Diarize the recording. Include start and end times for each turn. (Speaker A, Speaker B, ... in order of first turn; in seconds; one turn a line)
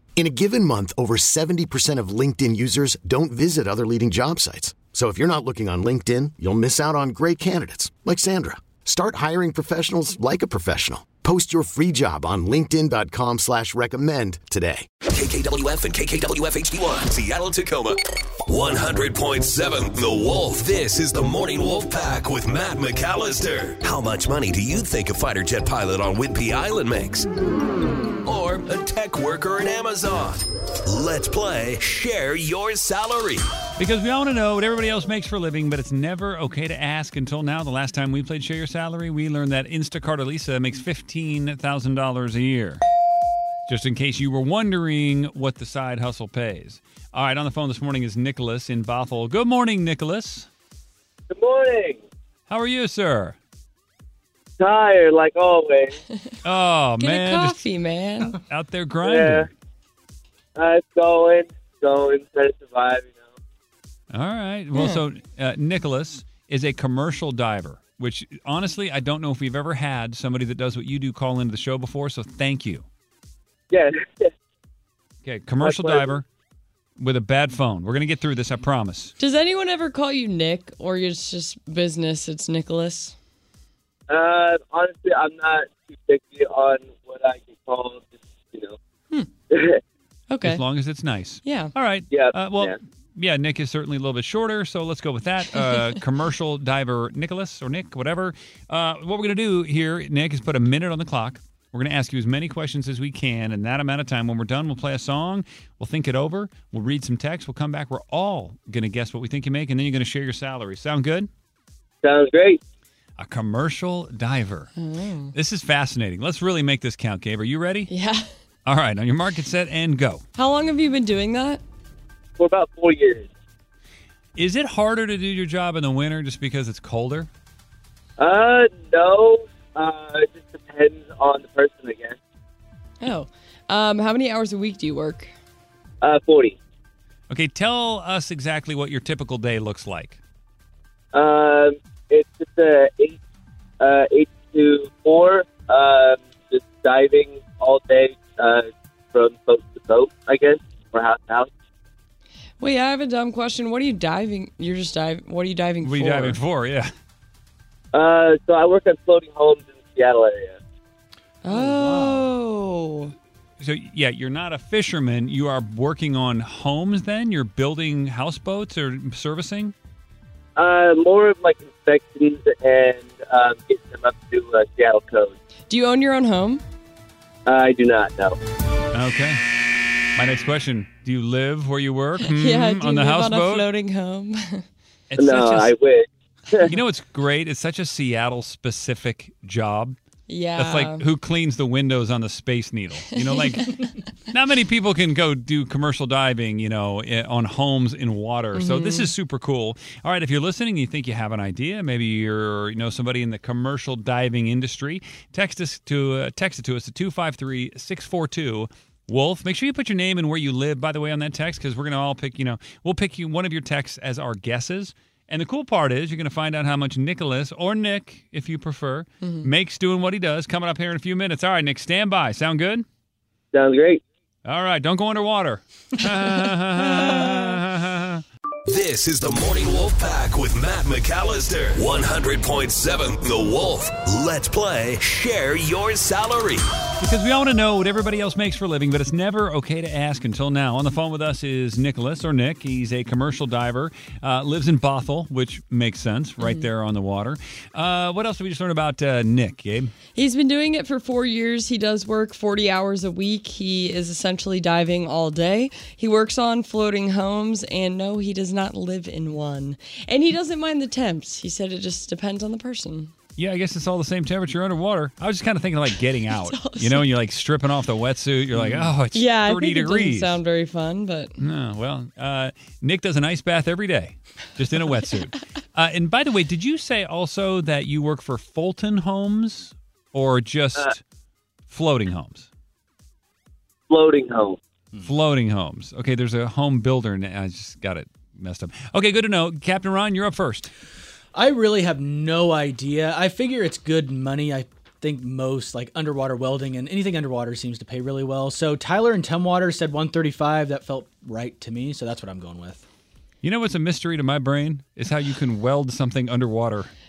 Speaker A: 0.1-14.9
Speaker B: 15.1-18.0
Speaker B: 18.5-27.3
Speaker B: 28.2-33.4
Speaker C: 33.8-42.8
Speaker C: 43.7-50.5
Speaker D: 51.3-52.0
Speaker C: 52.5-53.4
Speaker D: 54.6-56.0
Speaker C: 56.4-57.6
Speaker E: 57.0-58.4
Speaker C: 58.3-59.5
Speaker D: 59.0-59.5
Speaker D: 60.6-63.4
Speaker C: 64.1-72.8
Speaker E: 64.8-65.0
Speaker D: 73.7-74.3
Speaker C: 75.2-76.2
Speaker D: 75.6-76.2
Speaker C: 77.0-79.1
Speaker E: 79.2-83.2
Speaker D: 84.1-88.8
Speaker D: 89.5-89.8
Speaker E: 90.3-90.6
Speaker C: 90.4-111.3
Speaker E: 91.4-91.7
Speaker D: 92.1-92.8
Speaker D: 112.0-112.6
Speaker C: 113.2-114.7
Speaker E: 114.8-115.3
Speaker C: 115.3-117.9
Speaker E: 117.9-118.3
Speaker C: 118.7-120.2
Speaker E: 120.3-121.6
Speaker D: 122.4-123.3
Speaker C: 124.4-127.3
Speaker D: 128.2-132.2
Speaker E: 133.0-135.3
Speaker D: 136.0-136.6
Speaker C: 137.3-140.2
Speaker D: 141.1-143.2
Speaker D: 143.8-151.5
Speaker E: 152.6-156.4
Speaker C: 155.8-156.9
Speaker D: 157.9-160.6
Speaker E: 161.4-163.1
Speaker F: 161.5-162.3
Speaker C: 163.6-169.7
Speaker D: 170.6-175.4
Speaker E: 175.7-176.6
Speaker D: 177.5-178.4
Speaker C: 178.9-179.4
Speaker C: 180.2-183.7
Speaker E: 182.2-184.6
Speaker C: 185.1-185.7
Speaker D: 185.2-186.7
Speaker C: 186.6-190.0
Speaker E: 190.3-191.1
Speaker C: 190.6-193.8
Speaker E: 193.2-194.0
Speaker C: 194.3-222.8
Speaker E: 198.5-199.1
Speaker E: 219.2-219.5
Speaker D: 223.5-224.0
Speaker C: 224.5-228.2
Speaker E: 227.1-227.3
Speaker B: 228.7-236.6
Speaker C: 237.0-249.9
Speaker E: 246.4-246.7
Speaker E: 250.2-263.1
Speaker C: 263.4-270.4
Speaker E: 266.3-267.1
Speaker F: 268.6-268.9
Speaker E: 269.1-271.4
Speaker C: 271.4-281.0
Speaker C: 281.7-282.5
Speaker D: 283.9-284.6
Speaker C: 285.0-290.7
Speaker F: 291.4-302.9
Speaker C: 303.4-306.9